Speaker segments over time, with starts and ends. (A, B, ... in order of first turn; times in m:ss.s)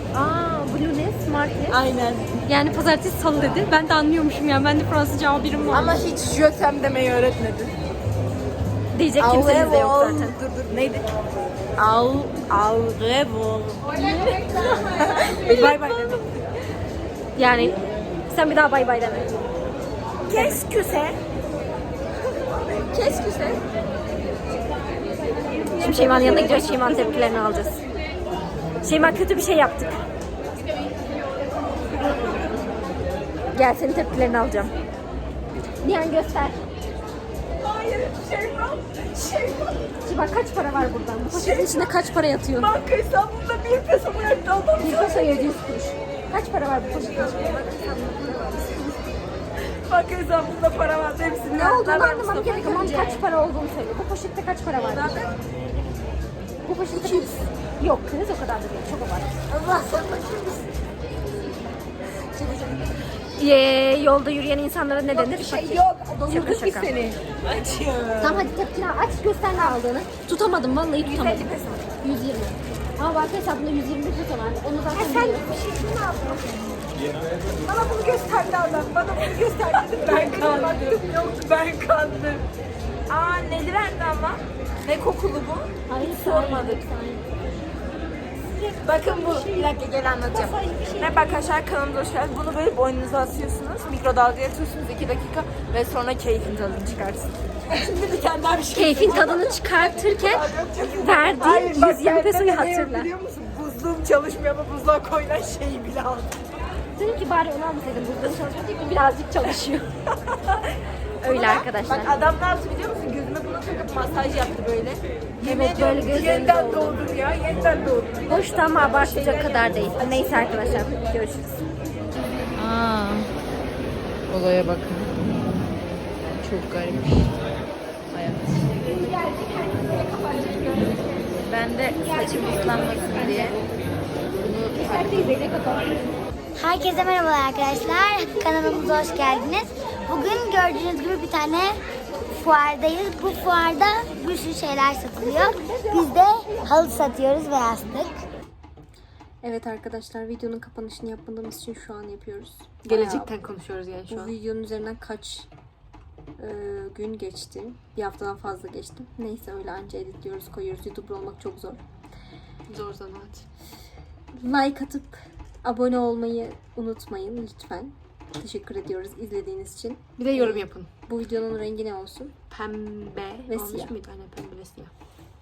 0:00.1-0:01.8 A
0:01.7-0:02.2 B
0:02.5-0:06.1 A
0:05.7-0:07.7 B
0:08.9-0:10.4 A
0:09.2-0:11.1 B
0:11.8-0:13.9 B
0:13.9-0:16.2 A
0:14.6-0:16.4 B
0:17.4-0:19.5 A
0:20.3-0:21.2 B
0:20.3-0:20.6 A
0:22.7-0:23.6 B
0:25.8-0:27.2 B
0:25.8-0:27.8 A
0:28.8-0:30.0 A
0:31.8-0:32.7 B
0:33.5-0:34.7 A
0:35.8-0:36.6 A
0:37.6-0:39.9 B
0:40.0-0:42.7 A
0:41.3-0:42.0 B
0:42.6-0:45.5 B
0:44.8-0:49.0 A
0:46.8-0:47.8 B
0:49.9-0:53.2 B
0:51.5-0:55.3 A
0:54.8-0:55.4 B
0:56.6-0:59.3 A
0:57.0-0:57.5 B
0:59.5-1:00.7 B
1:02.3-1:02.9 B
1:03.4-1:06.9 A
1:05.1-1:08.5 B
1:08.2-1:11.5 A
1:11.0-1:11.8 B
1:12.0-1:15.4 A
1:14.9-1:16.8 B
1:17.6-1:22.4 B
1:19.4-1:21.0 A
1:23.1-1:26.8 B
1:25.9-1:27.3 A
1:28.5-1:46.4 B
1:30.4-1:31.0 A
1:38.7-1:40.4 A
1:41.0-1:43.1 A
1:47.0-1:49.9 A
1:50.1-1:50.7 B
1:51.2-1:52.1 A
1:51.2-2:01.1 B
1:55.4-1:57.0 A
1:58.3-2:01.6 A
2:02.6-2:03.3 B
2:04.3-2:05.2 B
2:06.2-2:07.3 B
2:08.1-2:08.7 B
2:08.9-2:11.1 A
2:11.5-2:13.6 B
2:12.0-2:13.6 A
2:14.4-2:15.4 B
2:14.7-2:15.9 A
2:14.9-2:15.1 C
2:16.6-2:21.8 D
2:22.3-2:28.3 D
2:29.4-2:33.3 A
2:32.9-2:34.3 C
2:34.1-2:35.5 A
2:36.4-2:41.8 A
2:42.7-2:43.3 C
2:44.4-2:52.3 A
2:50.2-2:50.9 C
2:52.5-2:54.9 C
2:53.5-2:54.0 A